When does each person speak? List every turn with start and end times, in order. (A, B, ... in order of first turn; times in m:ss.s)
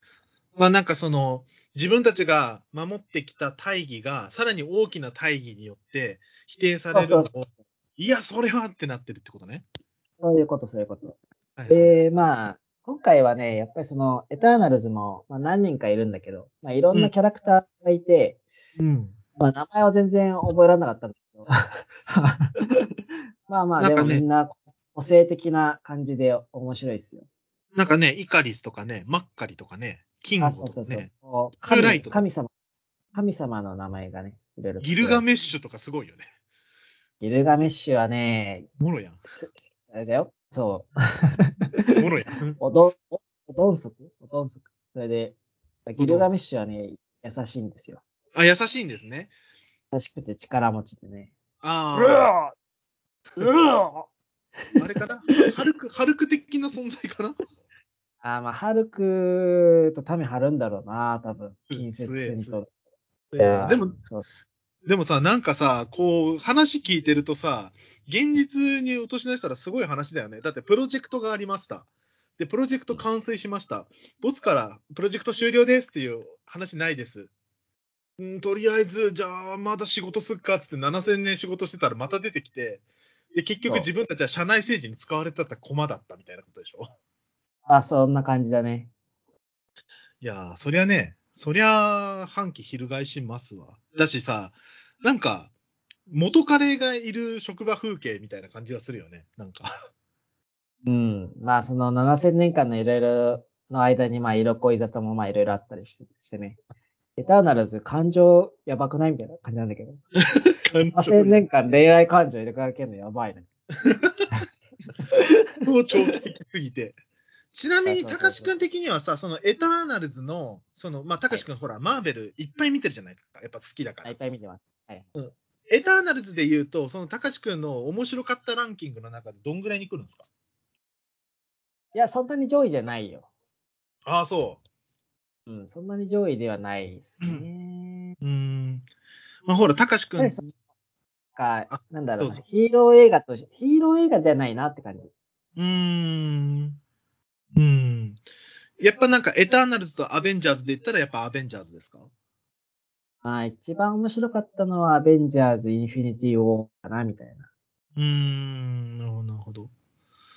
0:00.6-0:09.6 A
0:06.9-0:07.3 B
0:10.2-0:11.2 B
0:11.6-0:12.0 A
0:11.7-0:18.4 B
0:18.8-0:19.2 A
0:19.4-0:27.3 B
0:23.8-0:24.2 A
0:27.8-0:31.1 A
0:30.4-0:32.5 B
0:31.7-0:32.2 A
0:33.1-0:35.2 B
0:34.8-0:36.3 A
0:37.2-0:38.7 B
0:38.8-0:39.2 A
0:39.3-0:41.6 B
0:42.0-0:42.6 A
0:42.6-0:45.4 B
0:45.9-0:48.0 B
0:46.0-0:46.3 A
0:48.3-0:49.3 A
0:49.9-0:51.3 B
0:51.6-0:52.3 A
0:52.0-0:52.6 B
0:53.4-0:54.1 B
0:54.8-0:57.4 A
0:58.2-1:02.7 B
1:01.7-1:02.6 A
1:03.3-1:04.0 A
1:03.4-1:04.3 B
1:04.9-1:11.9 A
1:12.4-1:17.3 A
1:18.2-1:26.9 A
1:27.7-1:28.9 B
1:30.2-1:35.5 A
1:36.1-1:39.7 A
1:40.8-1:46.6 B
1:47.2-1:50.0 B
1:50.3-1:51.4 A
1:50.9-1:53.5 B
1:53.8-1:54.4 A
1:55.0-1:55.6 B
1:55.6-1:57.0 A
1:57.5-2:04.2 A
1:57.8-1:58.5 B
2:04.0-2:05.1 B
2:05.2-2:10.2 A
2:11.9-2:13.3 B
2:14.1-2:14.6 A
2:15.5-2:18.2 B
2:18.2-2:18.9 A
2:19.5-2:20.4 A
2:20.2-2:20.5 B
2:21.4-2:25.1 B
2:21.7-2:22.4 A
2:25.6-2:26.8 A
2:27.6-2:28.2 A
2:28.8-2:32.1 A
2:33.2-2:37.5 B
2:38.0-2:39.7 A